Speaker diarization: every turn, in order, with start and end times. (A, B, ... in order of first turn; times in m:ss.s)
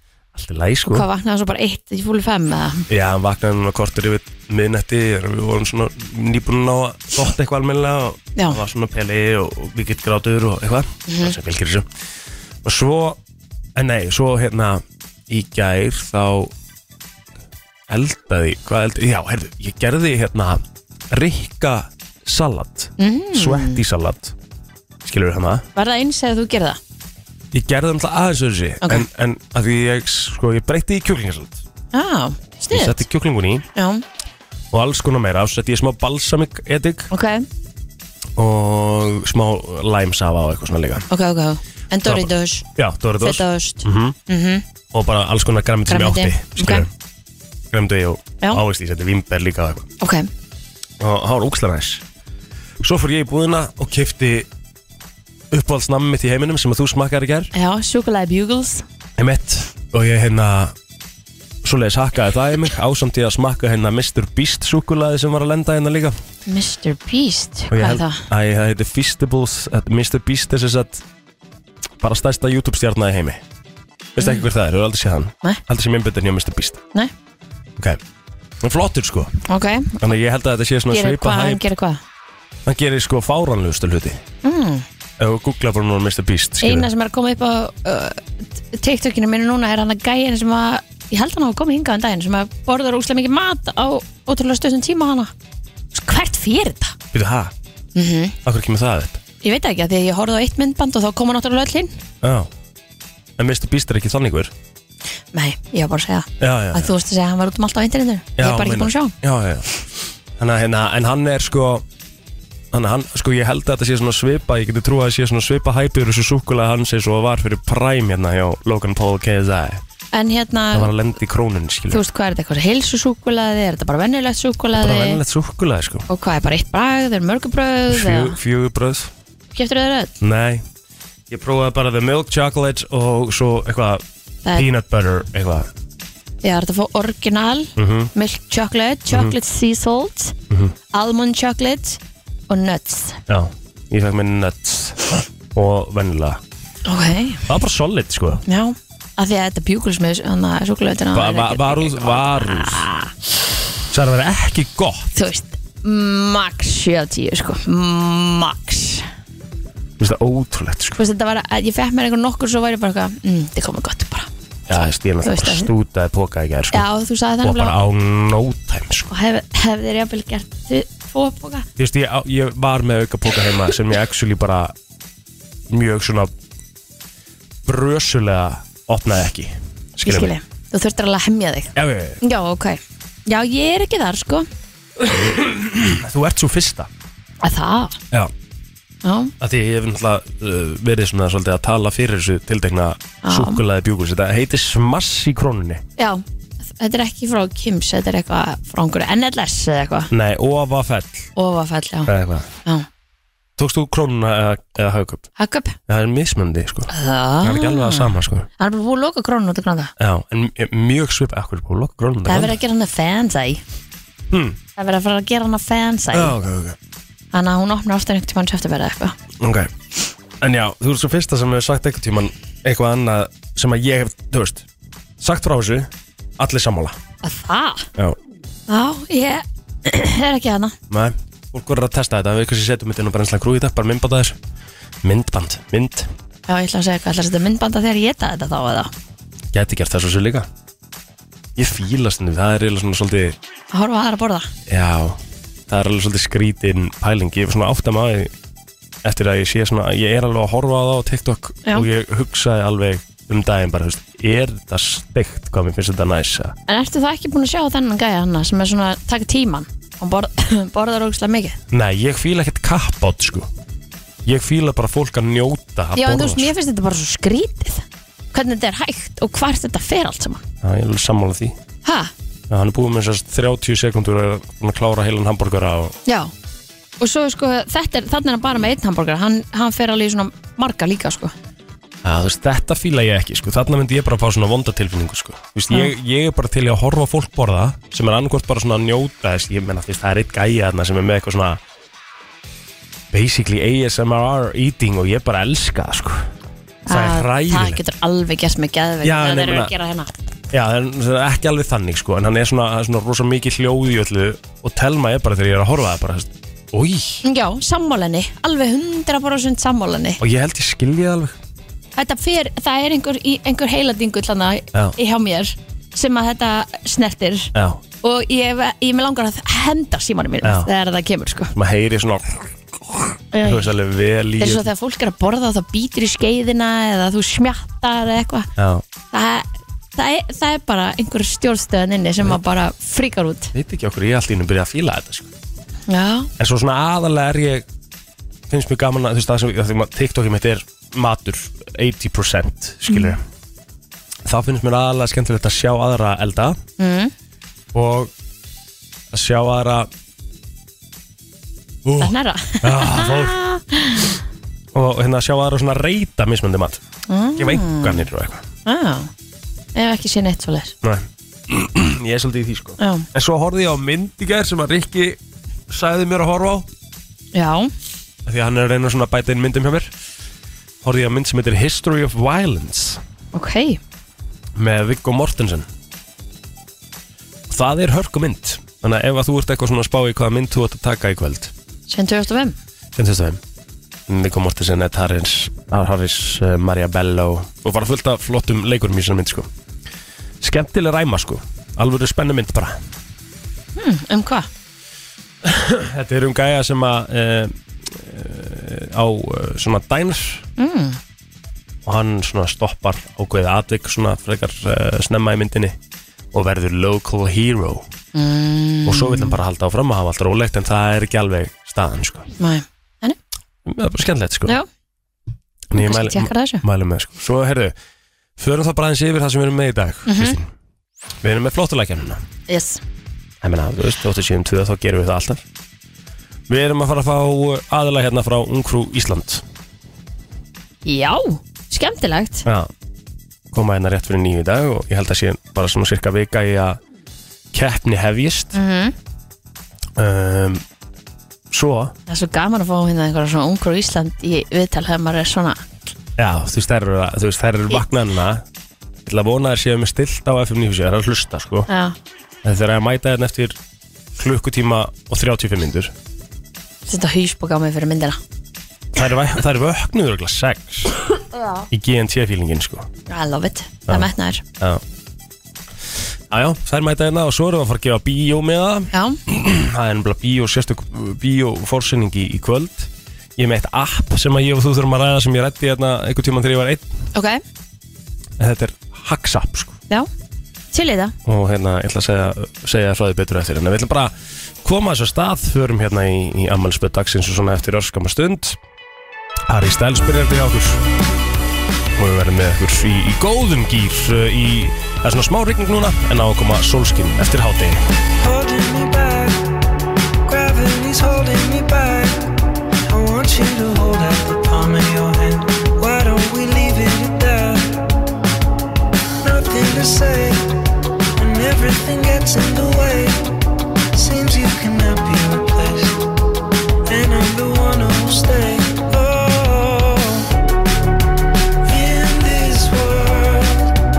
0:00.3-0:01.0 A
0:00.9-0:02.8 B
0:02.9-0:11.9 A
0:11.1-0:11.3 B
0:12.6-0:13.2 A
0:13.7-0:16.5 A
0:17.9-0:24.3 A
0:23.0-0:23.8 B
0:25.0-0:25.6 A
0:25.7-0:26.8 B
0:27.5-0:31.6 A
0:31.9-0:33.0 B
0:32.7-0:33.6 A
0:33.8-0:34.0 B
0:34.7-0:37.1 A
0:37.1-0:37.4 B
0:38.4-0:41.0 A
0:41.1-0:42.6 B
0:42.0-0:44.2 A
0:43.2-0:44.6 B
0:44.9-0:46.9 A
0:45.9-0:46.9 B
0:47.7-0:49.9 A
0:50.0-0:50.3 B
0:51.0-0:52.0 A
0:52.8-0:54.5 A
0:55.5-0:57.5 A
0:57.5-0:58.8 B
0:59.2-1:00.7 A
1:01.6-1:06.2 A
1:06.4-1:08.2 B
1:07.7-1:11.0 A
1:12.0-1:13.4 A
1:14.1-1:16.8 A
1:14.2-1:14.4 B
1:18.6-1:19.3 A
1:19.5-1:20.0 B
1:20.0-1:21.6 A
1:20.9-1:22.0 B
1:22.6-1:24.2 A
1:24.4-1:24.8 B
1:25.2-1:26.9 A
1:26.6-1:35.3 B
1:35.9-1:37.0 B
1:37.1-1:37.5 A
1:37.9-1:38.4 B
1:38.4-1:39.2 A
1:39.4-1:41.9 B
1:42.2-1:42.5 A
1:43.4-1:44.5 A
1:45.3-1:49.1 B
1:46.4-1:46.9 A
1:48.4-1:49.8 A
1:50.4-1:51.8 A
1:52.7-1:59.8 A
2:00.1-2:00.9 B
2:00.7-2:02.0 A
2:01.9-2:05.2 B
2:04.7-2:06.1 A
2:06.1-2:08.4 B
2:07.9-2:09.1 A
2:09.5-2:10.2 B
2:10.2-2:10.6 A
2:11.3-2:15.7 A
2:16.4-2:20.3 B
2:17.8-2:18.1 A
2:19.1-2:19.4 A
2:20.9-2:23.2 B
2:23.3-2:26.4 A
2:26.8-2:27.4 B
2:27.5-2:28.4 A
2:28.4-2:33.1 B
2:31.1-2:32.9 A
2:33.9-2:35.1 A
2:35.1-2:39.1 B
2:40.0-2:41.0 A
2:41.0-2:44.3 B
2:44.7-2:46.9 A
2:45.2-2:45.7 B
2:46.7-2:47.8 B
2:47.4-2:49.1 A
2:49.1-2:51.7 B
2:51.8-2:54.7 A
2:55.7-2:56.3 A
2:57.6-3:00.3 A
3:00.0-3:04.5 B
3:01.7-3:02.2 A
3:05.0-3:06.9 A
3:07.4-3:08.0 B
3:09.0-3:09.3 B
3:09.4-3:15.8 A
3:13.2-3:13.6 B
3:16.0-3:16.2 B
3:16.8-3:20.1 B
3:20.1-3:21.3 A
3:21.4-3:22.1 B
3:22.0-3:22.5 A
3:23.6-3:25.3 A
3:25.4-3:25.8 B
3:25.9-3:26.9 A
3:26.9-3:29.9 B
3:27.4-3:28.5 A
3:30.0-3:32.6 A
3:32.2-3:33.6 B
3:34.3-3:34.6 A
3:34.8-3:36.4 B
3:36.1-3:36.8 A
3:37.3-3:39.2 B
3:39.4-3:39.7 A
3:40.4-3:44.6 A
3:45.2-3:47.0 A
3:47.2-3:47.9 B
3:48.7-3:50.7 B
3:50.9-3:54.4 A
3:55.0-3:56.1 A
3:56.5-3:58.9 B
3:59.5-4:00.5 A
4:01.6-4:03.4 A
4:03.7-4:04.5 B
4:04.7-4:08.3 A
4:09.0-4:16.6 A
4:16.7-4:21.6 B
4:21.7-4:23.5 A
4:24.2-4:26.5 A
4:26.0-4:30.4 B
4:30.6-4:31.6 A
4:31.8-4:32.1 B
4:32.5-4:36.0 A
4:36.0-4:36.3 B
4:37.0-4:41.3 B
4:42.0-4:51.6 A
4:53.1-4:56.3 A
4:56.9-5:00.1 B
4:56.9-4:57.8 A
4:59.0-4:59.7 A
5:00.5-5:07.2 A
5:07.2-5:10.2 B
5:10.2-5:11.4 A
5:12.0-5:21.5 B
5:17.5-5:17.8 A
5:20.4-5:20.7 A
5:21.5-5:24.7 A
5:23.3-5:23.7 B
5:24.4-5:28.5 B
5:28.6-5:28.8 A
5:29.1-5:33.5 B
5:33.5-5:35.3 A
5:35.9-5:36.3 B
5:36.4-5:37.6 A
5:38.5-5:43.2 A
5:42.9-5:43.2 B
5:44.2-5:46.6 A
5:46.8-5:47.1 B
5:47.7-5:48.1 A
5:49.1-5:49.9 A
5:51.8-5:53.4 A
5:52.0-5:54.2 B
5:54.7-5:56.8 A
5:57.1-5:58.1 B
5:57.4-5:58.4 A
5:58.6-5:59.1 B
5:59.7-6:00.8 B
6:00.8-6:06.7 A
6:02.8-6:03.1 B
6:07.3-6:07.7 B
6:08.2-6:09.9 A
6:10.8-6:13.0 A
6:13.3-6:13.8 B
6:14.6-6:15.7 A
6:17.5-6:21.5 A
6:21.9-6:22.6 B
6:22.9-6:23.4 A
6:24.1-6:29.5 A
6:30.4-6:32.8 A
6:33.8-6:34.5 B
6:35.4-6:40.4 A
6:40.6-6:41.0 B
6:41.8-6:45.8 A
6:46.3-6:47.9 A
6:48.1-6:49.4 B
6:48.8-6:52.3 A
6:52.4-6:53.2 B
6:53.6-6:54.6 A
6:55.7-6:57.7 A
6:55.8-6:56.6 B
6:58.4-7:00.5 A
7:00.0-7:00.4 B
7:01.2-7:02.2 A
7:02.5-7:02.8 B
7:03.4-7:05.4 A
7:06.5-7:09.4 A
7:10.8-7:12.4 B
7:12.4-7:12.7 A
7:13.5-7:16.8 A
7:17.5-7:18.5 A
7:18.5-7:18.9 B
7:20.0-7:20.6 A
7:21.5-7:21.9 A
7:22.1-7:25.6 B
7:26.2-7:28.4 A
7:29.0-7:31.7 A
7:31.7-7:32.0 B
7:32.4-7:33.6 A
7:34.1-7:35.9 A
7:36.8-7:38.2 B
7:38.9-7:41.0 A
7:41.3-7:41.6 B
7:41.7-7:42.9 A
7:43.1-7:44.4 B
7:43.9-7:44.8 A
7:46.3-7:56.9 A
7:48.9-7:49.2 B
7:57.1-7:57.4 B
7:58.4-7:59.8 A
8:00.7-8:01.1 B
8:01.2-8:08.6 A
8:09.5-8:10.8 A
8:12.0-8:17.8 A
8:18.2-8:19.5 C
8:20.2-8:22.3 C
8:22.8-8:27.8 C
8:29.2-8:30.5 C
8:31.2-8:33.3 C
8:33.9-8:36.0 C
8:36.9-8:40.3 C
8:41.6-8:43.7 C